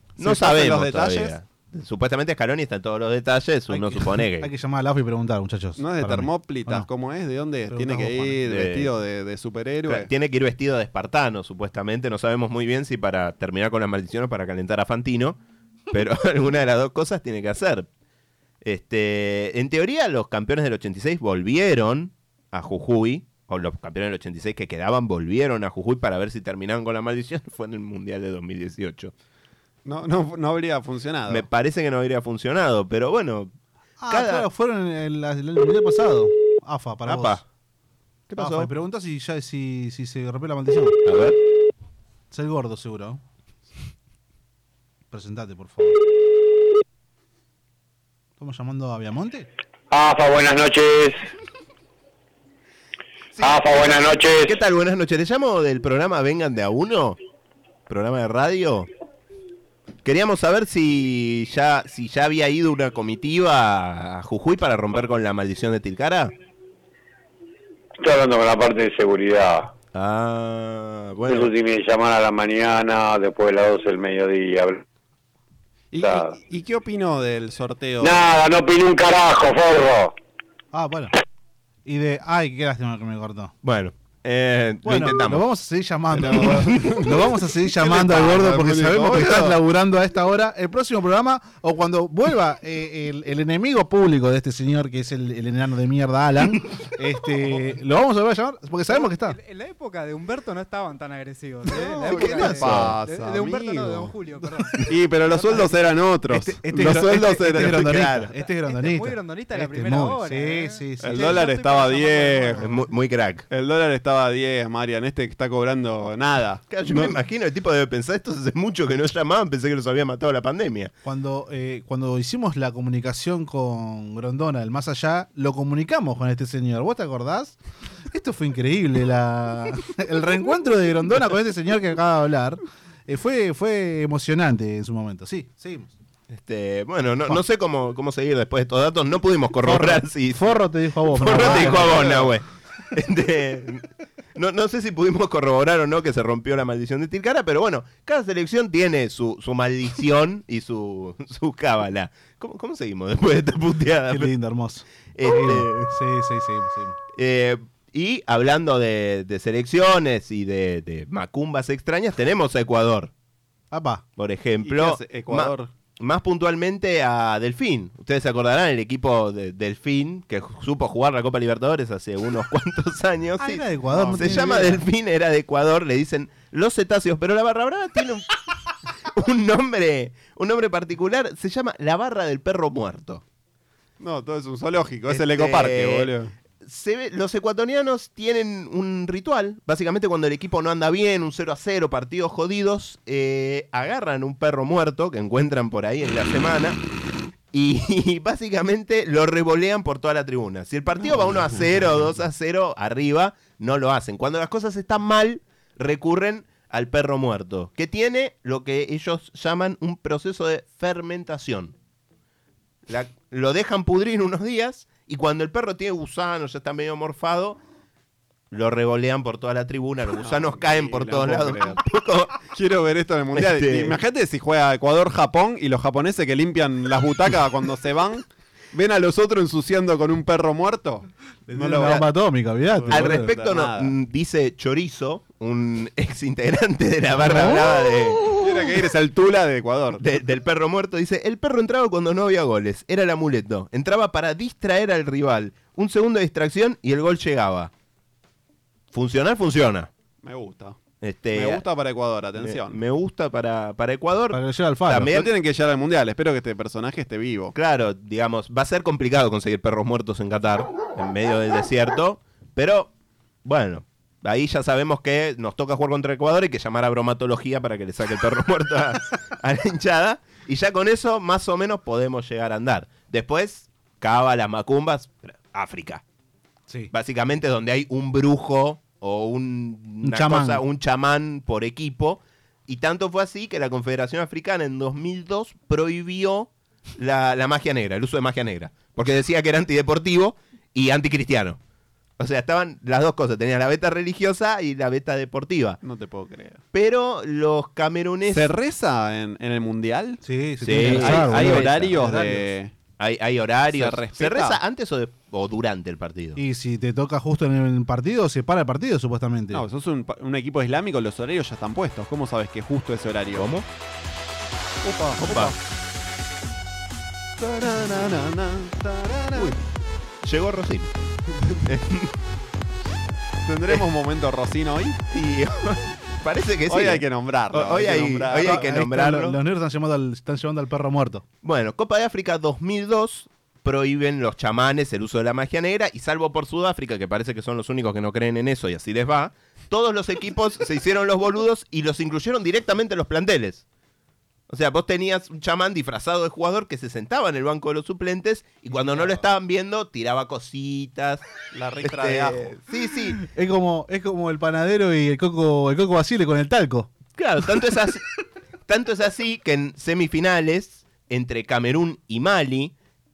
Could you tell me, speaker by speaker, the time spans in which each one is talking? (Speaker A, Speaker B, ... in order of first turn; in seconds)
Speaker A: 0.2-4.5, 8.5-8.9, 9.9-15.4, 15.9-17.9, 18.6-29.1, 31.3-33.5, 34.1-34.5, 37.1-37.4, 38.3-38.7, 41.0-41.4, 53.4-57.2, 57.9-58.9, 60.0-66.3, 69.9-71.5, 83.6-85.5, 102.4-102.9, 107.5-108.3, 112.6-113.5, 116.7-120.9, 136.3-140.6, 141.1-154.3, 155.2-155.9, 157.2-163.1, 164.2-178.3, 179.1-183.2, 185.1-186.1, 186.6-196.8, 197.5-211.8, 212.9-217.6, 218.5-222.4, 223.3-224.0, 232.9-238.3, 240.0-247.7, 248.9-249.9, 251.0-251.6, 252.4-255.3, 257.5-262.9, 263.4-276.0, 276.9-291.6, 292.2-295.8, 296.7-298.5, 300.6-302.2, 303.0-306.4, 313.3-313.6, 315.2-315.5, 320.2-320.9, 321.7-322.1, 325.1-329.4, 331.4-343.6, 344.5-351.2, 351.8-353.2, 357.1-358.0, 358.7-362.8
Speaker B: 0.2-1.4, 5.8-10.1, 29.9-31.5, 75.9-78.3, 86.1-89.6, 101.7-104.1, 104.9-108.1, 111.0-112.7, 113.5-117.1, 141.4-142.0, 164.6-165.7, 173.9-174.7, 184.0-186.3, 220.2-221.8, 222.5-232.1, 232.8-233.9, 238.3-240.0, 250.2-250.8, 251.3-252.8, 255.1-257.5, 295.8-296.6, 298.3-302.7, 303.7-304.6, 309.5-313.5, 314.8-315.6, 317.4-319.6, 323.5-325.0, 326.7-328.7, 348.9-349.2, 351.5-352.6
Speaker C: 3.7-6.9, 7.7-8.4, 34.0-37.4, 38.4-41.0, 42.3-43.2, 45.1-46.0, 48.4-49.5, 80.7-81.1, 81.8-83.5, 84.8-99.4, 106.3-111.5, 121.0-127.6, 128.1-135.9, 139.6-142.2, 154.1-157.0, 163.7-164.1, 173.4-174.8, 231.5-233.3, 254.3-255.2, 280.0-280.6, 300.2-302.5, 306.4-309.6, 328.4-331.2, 353.2-356.9
Speaker D: 49.9-51.2, 53.4-54.6, 68.0-69.7, 71.3-74.8, 76.0-76.3, 78.0-80.1
Speaker E: 98.9-105.9, 108.4-112.7